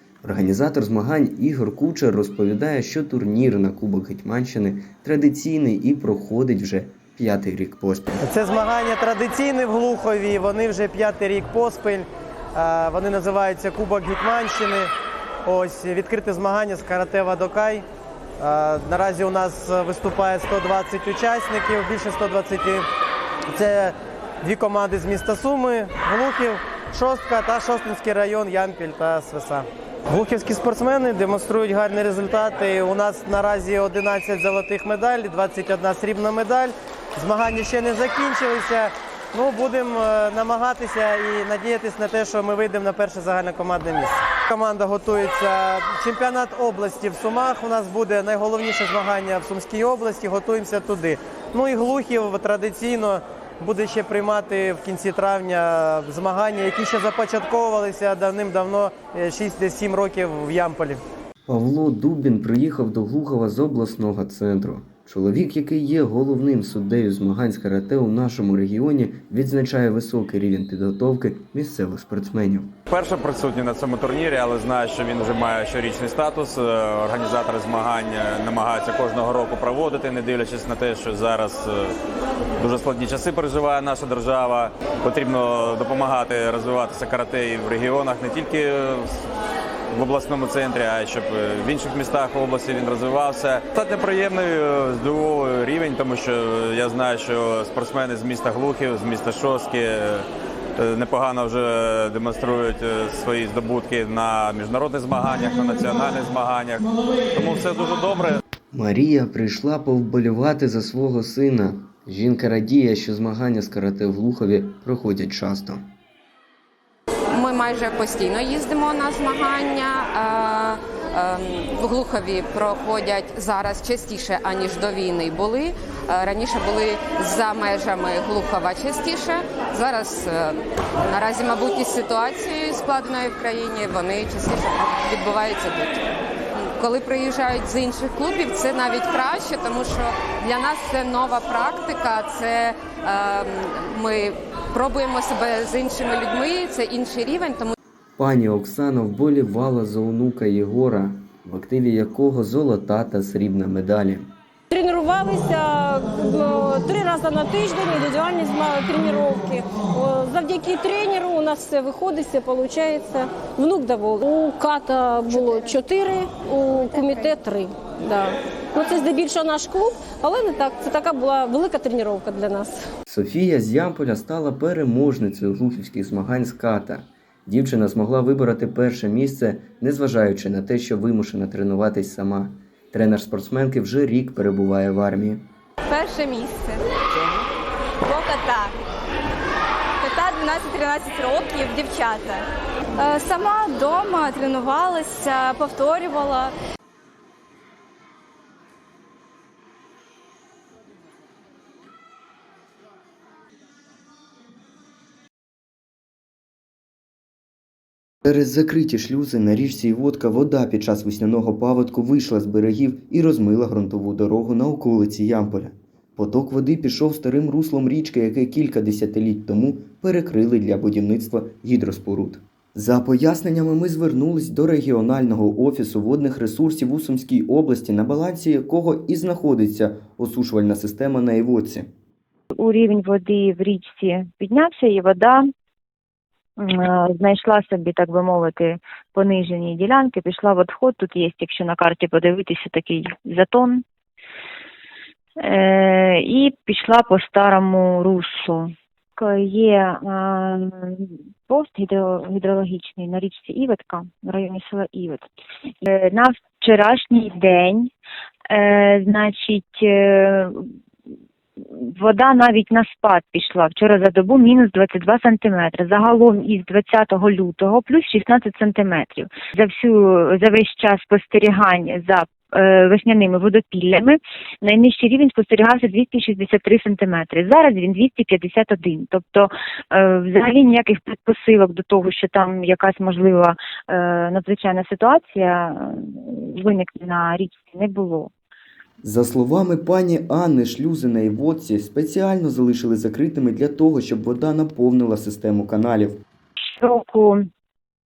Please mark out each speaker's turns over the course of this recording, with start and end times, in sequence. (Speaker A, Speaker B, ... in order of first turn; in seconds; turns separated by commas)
Speaker A: 0.2-8.2, Speaker B: 8.2-14.9, Speaker B: 15.4-17.8, Speaker B: 18.4-22.8, Speaker B: 23.5-61.0, Speaker A: 61.5-72.8, Speaker C: 72.9-81.9, Speaker C: 82.6-89.1, Speaker C: 89.9-100.2, Speaker C: 100.8-108.4, Speaker A: 108.7-115.8, Speaker D: 117.3-136.0, Speaker D: 136.5-147.7, Speaker A: 148.2-154.3, Speaker E: 154.7-172.8, Speaker A: 173.1-185.4, Speaker F: 185.9-186.8, Speaker F: 188.1-188.7, Speaker F: 190.0-192.4, Speaker F: 193.0-196.5, Speaker A: 208.2-231.9, Speaker G: 232.6-235.4, Speaker G: 236.6-243.8, Speaker G: 245.4-255.3, Speaker G: 255.8-257.9, Speaker G: 258.5-260.7, Speaker G: 261.6-288.3, Speaker A: 289.0-296.2, Speaker G: 296.8-297.4